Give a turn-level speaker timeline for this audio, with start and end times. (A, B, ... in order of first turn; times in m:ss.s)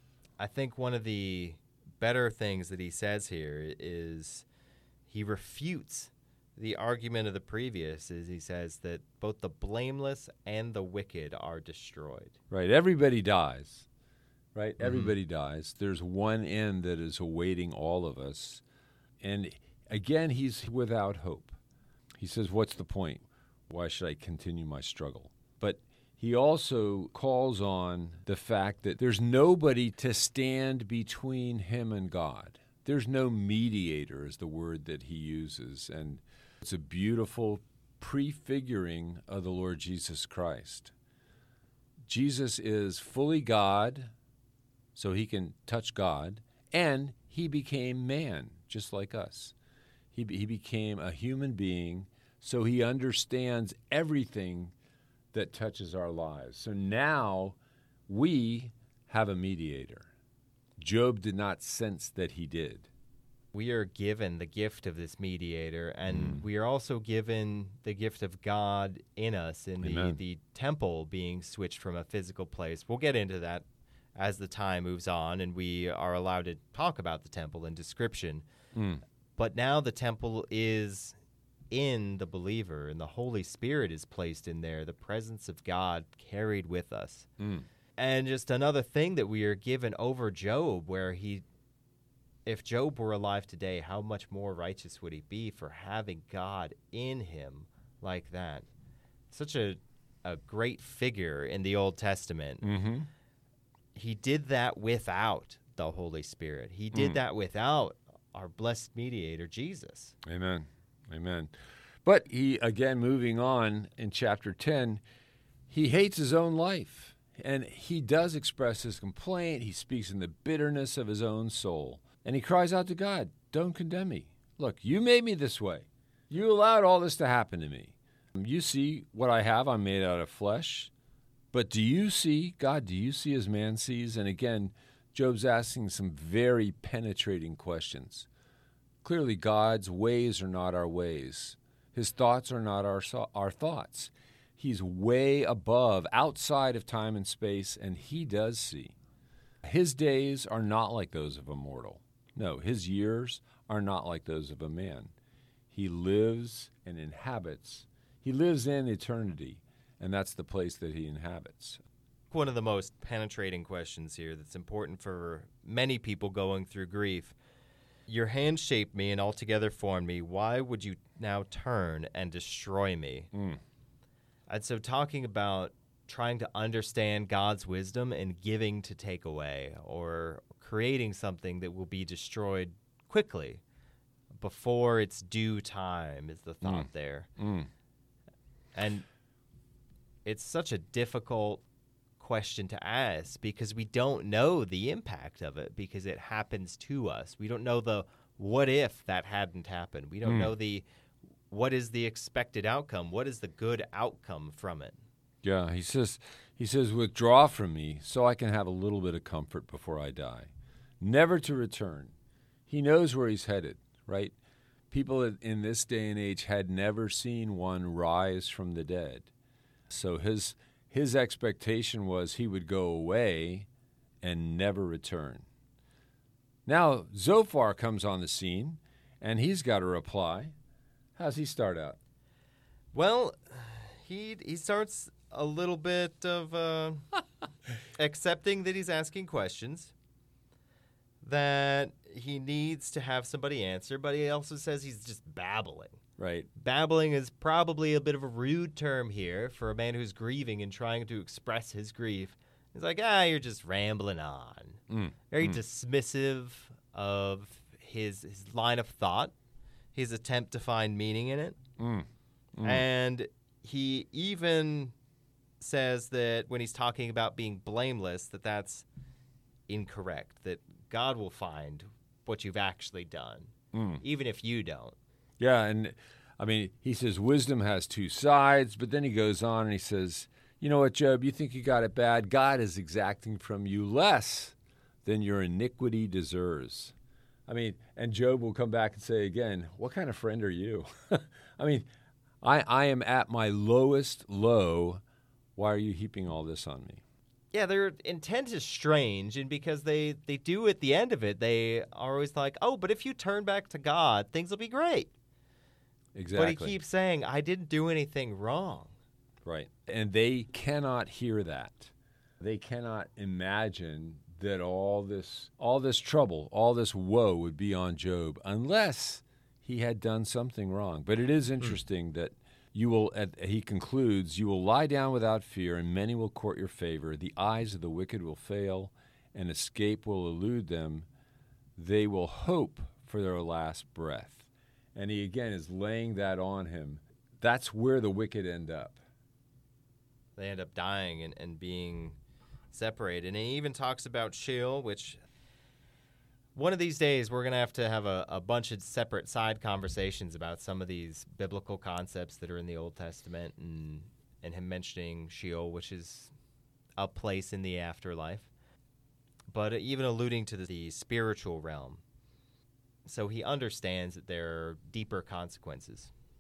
0:00.4-0:04.5 A
0:05.1-0:12.4 A
0:12.5-0:13.9 B
0:14.6-0:18.6 B
0:14.8-0:15.1 A
0:19.2-0:21.6 B
0:22.2-0:40.9 B
0:42.1-0:44.1 B
0:45.0-0:49.5 B
0:50.1-0:54.7 B
0:55.3-0:57.6 B
0:58.1-1:00.1 B
1:00.8-1:02.9 B
1:03.5-1:13.6 A
1:06.1-1:06.4 B
1:09.8-1:10.2 B
1:14.2-1:18.5 A
1:18.7-1:19.0 B
1:19.4-1:21.2 A
1:21.7-1:27.3 A
1:27.4-1:27.6 B
1:28.0-1:31.4 A
1:32.5-1:38.7 A
1:39.3-1:42.7 A
1:42.6-1:43.1 B
1:43.9-1:50.1 A
1:46.9-1:47.2 B
1:50.2-1:51.5 B
1:52.0-1:55.0 B
1:55.7-2:10.9 B
2:11.5-2:18.3 B
2:19.0-2:29.0 B
2:29.6-2:35.1 B
2:35.7-2:41.8 B
2:42.3-2:47.4 A
2:48.1-2:53.3 A
2:53.3-2:53.6 B
2:54.5-3:03.6 A
3:04.4-3:07.3 A
3:06.6-3:07.7 B
3:08.8-3:09.0 A
3:10.2-3:11.6 A
3:12.2-3:20.9 A
3:20.2-3:20.5 B
3:21.5-3:25.0 A
3:25.4-3:30.5 B
3:31.0-3:32.1 B
3:32.7-3:34.4 B
3:34.9-3:39.3 B
3:39.9-3:43.7 B
3:44.2-3:45.4 B
3:46.6-3:50.5 B
3:51.2-3:52.0 B
3:52.9-3:57.1 A
3:57.9-3:59.9 A
4:01.2-4:06.0 A
4:06.2-4:06.5 B
4:06.6-4:14.8 A
4:14.9-4:15.6 B
4:15.3-4:19.3 A
4:19.9-4:21.6 A
4:21.8-4:22.8 B
4:22.6-4:24.9 A
4:25.6-4:28.9 A
4:29.7-4:35.0 A
4:33.7-4:34.0 B
4:35.4-4:46.9 B
4:47.5-4:51.9 B
4:52.4-4:55.0 B
4:55.6-4:57.0 B
4:57.5-5:05.1 A
5:06.1-5:06.8 B
5:06.3-5:08.9 A
5:09.4-5:31.1 B
5:31.8-5:39.0 B
5:40.4-5:42.2 A
5:42.7-5:45.2 A
5:46.6-5:56.3 A
5:57.0-5:58.5 A
5:59.5-6:02.0 A
6:03.0-6:06.1 A